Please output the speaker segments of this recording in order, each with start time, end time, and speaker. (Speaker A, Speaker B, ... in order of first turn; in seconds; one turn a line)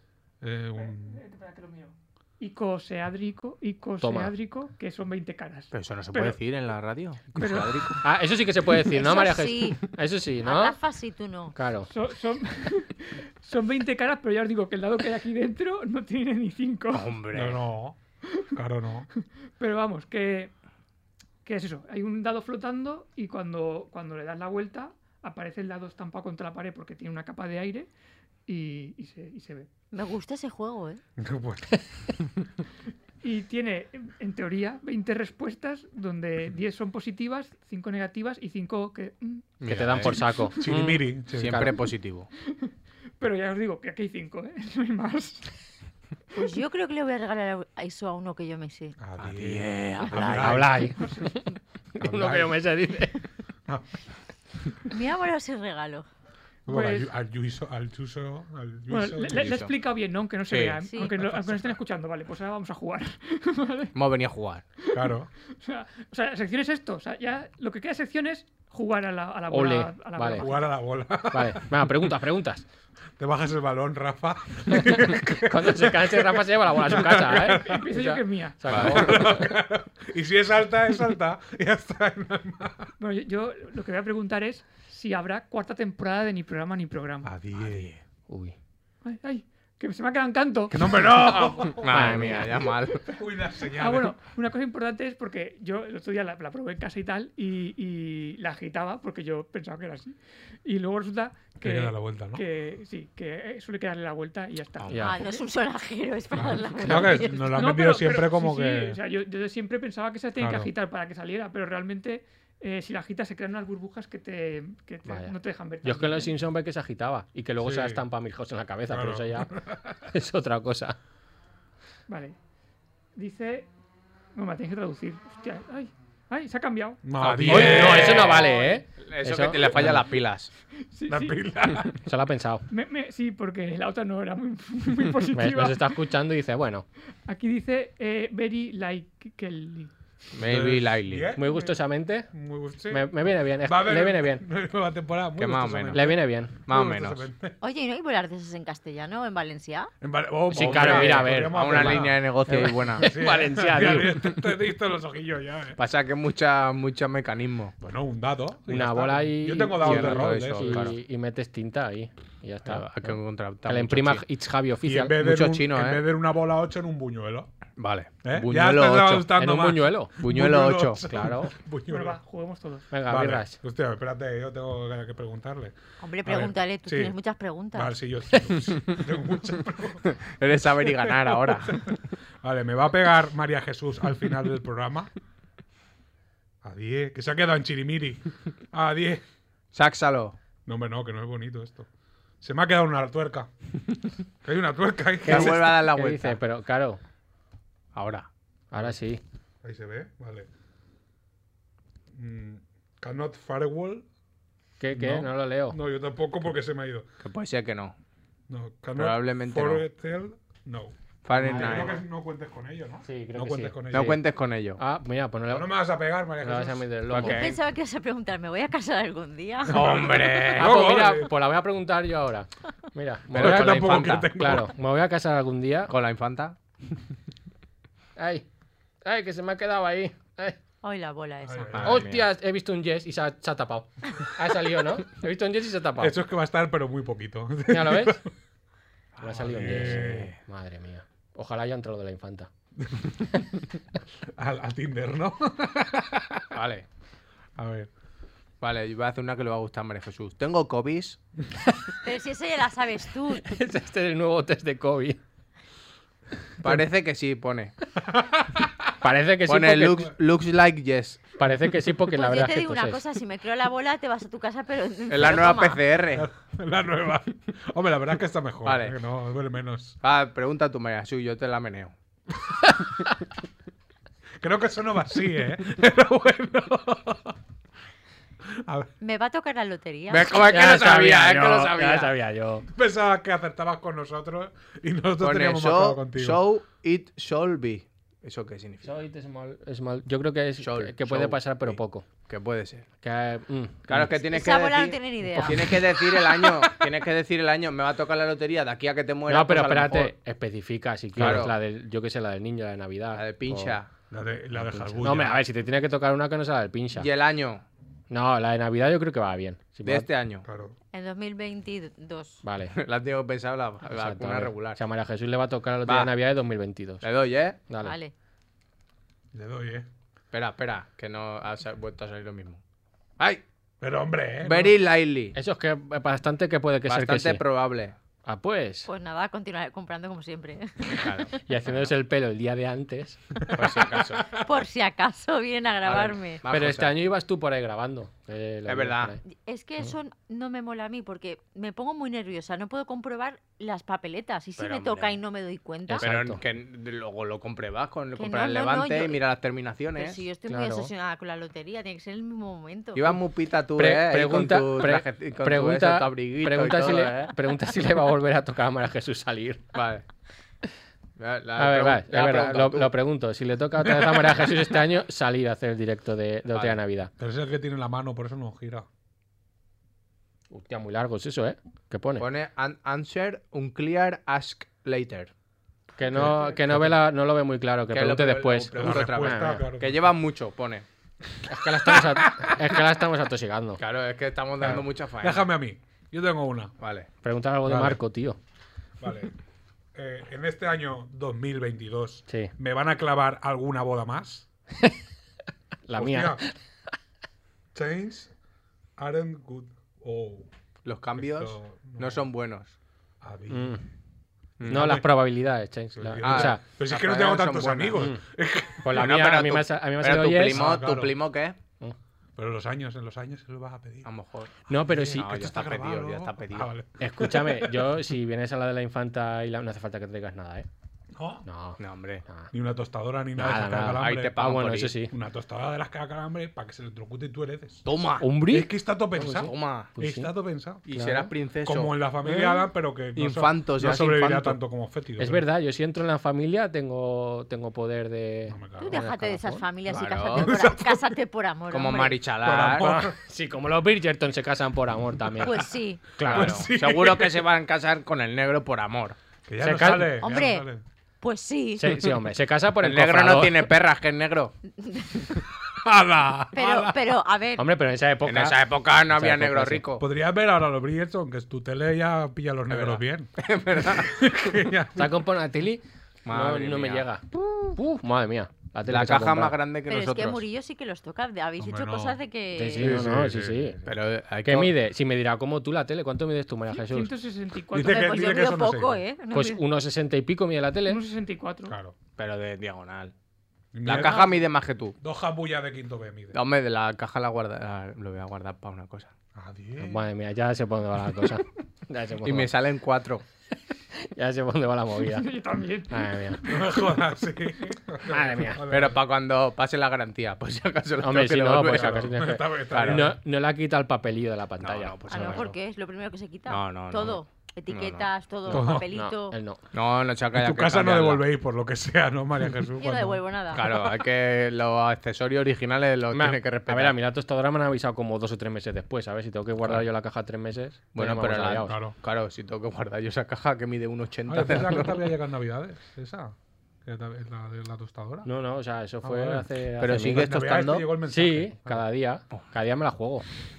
Speaker A: 0.4-1.2
Speaker B: 0.8-6.4
Speaker C: 4.0-4.3
Speaker D: 5.7-8.0
Speaker B: 7.3-7.8
Speaker C: 8.0-10.8
Speaker E: 8.9-9.9
Speaker E: 10.4-11.5
Speaker C: 11.5-11.9
Speaker B: 11.9-17.1
Speaker D: 16.9-17.6
Speaker A: 17.3-18.0
Speaker A: 18.5-19.1
Speaker B: 19.6-20.5
Speaker B: 21.4-27.9
Speaker B: 28.5-29.7
Speaker E: 29.9-31.0
Speaker A: 31.2-32.3
Speaker B: 33.2-39.5
Speaker D: 39.6-40.2
Speaker C: 39.6-41.7
Speaker A: 39.9-41.7
Speaker D: 41.4-42.3
Speaker B: 42.4-45.6
Speaker E: 46.3-49.0
Speaker A: 49.0-50.9
Speaker D: 49.2-50.7
Speaker C: 50.2-51.4
Speaker B: 51.0-51.4
Speaker C: 52.0-53.2
Speaker A: 52.0-52.6
Speaker E: 54.9-56.0
Speaker B: 56.7-57.1
Speaker A: 56.7-59.6
Speaker B: 58.9-63.9
Speaker D: 59.3-59.7
Speaker D: 60.5-60.9
Speaker E: 60.9-61.1
Speaker A: 61.1-61.7
Speaker D: 63.9-64.6
Speaker B: 64.8-70.7
Speaker A: 64.9-65.3
Speaker C: 69.5-70.5
Speaker A: 70.4-72.1
Speaker C: 71.3-72.6
Speaker A: 73.2-77.9
Speaker C: 74.7-79.5
Speaker B: 77.5-78.7
Speaker D: 78.7-79.2
Speaker A: 78.7-82.9
Speaker B: 83.0-87.3
Speaker A: 87.2-87.9
Speaker D: 87.5-88.0
Speaker C: 88.3-88.5
Speaker B: 89.0-91.4
Speaker A: 90.7-92.5
Speaker C: 91.7-92.6
Speaker D: 91.8-93.1
Speaker A: 93.1-94.2
Speaker B: 93.7-105.4
Speaker A: 101.6-102.4
Speaker E: 105.0-107.5
Speaker A: 106.4-109.0
Speaker B: 106.8-116.3
Speaker A: 110.4-110.7
Speaker C: 115.0-119.5
Speaker A: 117.6-118.0
Speaker A: 118.9-120.0
Speaker C: 120.0-121.0
Speaker B: 122.1-122.3
Speaker B: 123.1-123.7
Speaker B: 124.3-127.1
Speaker A: 127.0-128.4
Speaker D: 127.2-130.5
Speaker C: 127.5-130.0
Speaker B: 130.9-131.4
Speaker A: 131.1-132.0
Speaker C: 132.0-132.6
Speaker B: 132.7-136.0
Speaker C: 135.3-136.8
Speaker B: 137.3-139.9
Speaker D: 140.3-141.3
Speaker A: 140.4-147.5
Speaker C: 141.3-142.3
Speaker C: 142.9-144.4
Speaker D: 145.4-147.3
Speaker C: 145.9-146.5
Speaker E: 147.6-149.9
Speaker A: 150.0-155.8
Speaker C: 150.5-154.2
Speaker D: 150.6-153.1
Speaker D: 155.8-157.7
Speaker A: 157.8-160.9
Speaker C: 158.7-165.2
Speaker D: 159.8-161.0
Speaker D: 162.6-164.2
Speaker A: 164.8-167.5
Speaker D: 165.2-166.0
Speaker D: 167.8-169.3
Speaker A: 168.2-172.2
Speaker C: 169.3-170.1
Speaker D: 170.2-171.0
Speaker C: 171.1-171.5
Speaker B: 171.9-172.9
Speaker C: 172.9-173.6
Speaker A: 173.1-177.2
Speaker E: 176.0-177.9
Speaker A: 177.7-180.1
Speaker D: 180.3-181.9
Speaker A: 180.9-185.1
Speaker A: 186.6-189.2
Speaker D: 189.7-190.4
Speaker A: 190.7-191.9
Speaker A: 192.4-193.5
Speaker A: 194.4-195.7
Speaker C: 195.2-197.0
Speaker D: 195.2-196.4
Speaker D: 197.9-198.3
Speaker C: 198.7-199.2
Speaker A: 199.6-200.5
Speaker A: 202.1-204.1
Speaker C: 204.8-205.8
Speaker A: 204.9-207.1
Speaker D: 207.2-208.0
Speaker A: 208.5-214.2
Speaker D: 208.9-209.8
Speaker D: 211.2-212.0
Speaker C: 211.4-212.0
Speaker C: 213.1-214.1
Speaker D: 213.9-214.8
Speaker C: 214.8-215.7
Speaker A: 215.5-216.9
Speaker C: 216.4-217.4
Speaker D: 217.1-217.6
Speaker E: 217.2-220.0
Speaker A: 219.7-221.3
Speaker D: 219.7-221.0
Speaker C: 220.5-225.9
Speaker D: 223.3-224.4
Speaker A: 223.3-224.7
Speaker D: 225.9-226.6
Speaker C: 228.2-228.4
Speaker C: 229.0-230.6
Speaker E: 230.8-231.9
Speaker A: 231.4-232.1
Speaker D: 231.7-232.2
Speaker C: 231.8-236.1
Speaker A: 236.0-238.2
Speaker C: 237.7-238.2
Speaker D: 239.2-240.3
Speaker C: 239.2-242.5
Speaker A: 239.3-240.3
Speaker A: 242.8-243.4
Speaker A: 244.3-246.5
Speaker D: 246.5-246.8
Speaker A: 247.6-247.9
Speaker D: 248.6-251.2
Speaker E: 252.0-253.5
Speaker C: 253.4-255.2
Speaker D: 256.6-257.7
Speaker A: 258.1-258.7
Speaker C: 259.0-260.1
Speaker D: 259.5-261.2
Speaker C: 261.4-263.0
Speaker E: 262.1-265.8
Speaker D: 265.1-266.3
Speaker A: 266.1-270.0
Speaker D: 268.6-268.9
Speaker D: 270.0-271.9
Speaker A: 274.4-277.4
Speaker A: 278.5-278.9
Speaker E: 279.0-280.4
Speaker D: 280.1-282.1
Speaker C: 280.4-282.7
Speaker A: 282.7-286.4
Speaker D: 285.2-288.9
Speaker C: 288.8-292.1
Speaker D: 290.6-292.9
Speaker C: 293.0-294.1
Speaker D: 293.9-300.1
Speaker E: 294.3-295.8
Speaker C: 299.3-303.8
Speaker D: 301.1-301.6
Speaker A: 301.2-301.5
Speaker D: 303.1-303.9
Speaker A: 304.1-305.4
Speaker C: 304.5-307.1
Speaker D: 306.9-307.6
Speaker C: 308.1-310.1
Speaker D: 309.8-310.4
Speaker A: 310.4-310.8
Speaker E: 310.9-312.4
Speaker C: 312.4-312.7
Speaker D: 312.7-314.8
Speaker C: 313.9-317.1
Speaker D: 315.9-316.1
Speaker D: 317.0-317.6
Speaker C: 317.7-317.9
Speaker E: 317.8-318.1
Speaker A: 319.3-319.9
Speaker D: 320.3-322.6
Speaker A: 323.8-324.7
Speaker D: 324.4-325.4
Speaker C: 325.3-327.4
Speaker D: 326.9-327.9
Speaker C: 328.2-328.9
Speaker E: 328.9-331.2
Speaker D: 330.9-331.8
Speaker C: 331.4-333.4
Speaker A: 333.5-334.4
Speaker D: 333.5-334.3
Speaker E: 334.4-336.4
Speaker D: 335.8-336.9
Speaker C: 336.5-339.2
Speaker D: 338.6-339.1
Speaker E: 339.3-346.0
Speaker D: 344.6-345.2
Speaker C: 345.9-346.4
Speaker D: 346.0-350.2
Speaker E: 348.1-349.2
Speaker E: 349.9-353.2
Speaker C: 350.5-350.9
Speaker D: 352.9-357.3
Speaker C: 353.7-359.7
Speaker D: 359.7-360.0
Speaker D: 361.2-362.9
Speaker C: 361.6-367.1
Speaker D: 366.5-366.8
Speaker A: 367.2-368.9
Speaker C: 370.5-372.2
Speaker D: 372.2-375.3
Speaker C: 376.0-379.6
Speaker A: 376.1-376.9
Speaker D: 377.9-380.9
Speaker A: 378.8-380.1
Speaker C: 381.5-383.8
Speaker A: 381.8-382.6
Speaker D: 383.8-385.5
Speaker A: 384.6-386.7
Speaker D: 386.8-387.1
Speaker C: 387.2-388.4
Speaker A: 387.6-388.0
Speaker A: 389.0-389.3
Speaker A: 389.9-394.5
Speaker C: 395.9-396.5
Speaker A: 395.9-396.4
Speaker A: 397.7-398.3
Speaker A: 399.0-400.5
Speaker D: 400.8-402.7
Speaker A: 401.1-402.3
Speaker A: 403.2-403.8
Speaker C: 403.5-403.8
Speaker D: 404.6-405.0
Speaker A: 404.6-405.1
Speaker C: 404.7-406.6
Speaker A: 405.9-409.2
Speaker D: 406.2-408.1
Speaker C: 408.0-408.2
Speaker C: 408.8-410.6
Speaker D: 408.9-411.6
Speaker A: 410.4-411.2
Speaker A: 412.4-414.1
Speaker D: 414.0-414.5
Speaker C: 414.7-415.5
Speaker A: 414.8-417.9
Speaker D: 415.1-416.7
Speaker C: 417.0-420.7
Speaker A: 421.1-421.4
Speaker C: 421.4-422.5
Speaker D: 421.8-422.2
Speaker A: 422.5-424.5
Speaker C: 423.4-425.1
Speaker D: 423.9-425.0
Speaker A: 425.1-427.9
Speaker D: 427.8-428.3
Speaker C: 428.2-430.3
Speaker A: 428.5-430.8
Speaker D: 429.3-429.9
Speaker D: 430.9-432.6
Speaker C: 430.9-431.3
Speaker A: 431.6-435.5
Speaker D: 433.1-434.6
Speaker C: 435.2-439.6
Speaker A: 438.5-439.0
Speaker E: 438.8-442.2
Speaker D: 439.9-440.5
Speaker A: 440.3-441.2
Speaker D: 441.7-442.9
Speaker A: 442.4-443.2
Speaker C: 442.8-445.6
Speaker E: 445.4-446.1
Speaker A: 446.2-447.5
Speaker D: 446.2-449.2
Speaker A: 449.5-450.8
Speaker C: 449.6-450.2
Speaker E: 450.2-450.6
Speaker E: 451.2-452.0
Speaker C: 451.8-453.7
Speaker D: 452.8-454.5
Speaker E: 454.8-455.3
Speaker A: 455.6-457.0
Speaker E: 456.5-457.6
Speaker C: 457.6-459.8
Speaker D: 458.2-460.0
Speaker A: 460.0-465.2
Speaker D: 462.7-464.4
Speaker C: 464.9-469.6
Speaker D: 466.2-467.1
Speaker D: 468.9-470.4
Speaker E: 469.9-472.9
Speaker A: 471.6-472.2
Speaker C: 472.5-473.8
Speaker A: 472.7-474.0
Speaker D: 473.8-474.7
Speaker C: 474.4-477.1
Speaker B: 476.7-478.4
Speaker A: 477.7-479.0
Speaker E: 477.8-479.6
Speaker C: 479.3-481.0
Speaker B: 480.9-481.7
Speaker A: 481.7-481.9
Speaker D: 482.2-483.1
Speaker A: 483.7-484.5
Speaker D: 483.8-484.9
Speaker A: 485.0-486.4
Speaker D: 486.3-489.1
Speaker A: 489.3-490.1
Speaker C: 489.8-492.5
Speaker D: 492.2-493.2
Speaker C: 493.9-495.3
Speaker B: 495.0-496.4
Speaker C: 495.9-496.4
Speaker A: 496.5-499.0
Speaker C: 498.1-498.6
Speaker D: 498.7-502.2
Speaker C: 501.0-505.4
Speaker A: 501.6-503.1
Speaker D: 502.7-503.1
Speaker D: 504.6-505.5
Speaker E: 505.1-509.4
Speaker D: 506.5-508.1
Speaker C: 508.5-509.6
Speaker A: 508.5-508.9
Speaker D: 509.7-511.2
Speaker A: 510.3-513.2
Speaker E: 512.8-513.7
Speaker D: 513.5-517.0
Speaker C: 516.1-521.8
Speaker D: 520.9-525.1
Speaker A: 521.6-522.0
Speaker A: 524.3-528.3
Speaker C: 528.2-530.3
Speaker A: 529.0-531.9
Speaker D: 529.8-530.9
Speaker C: 531.1-533.2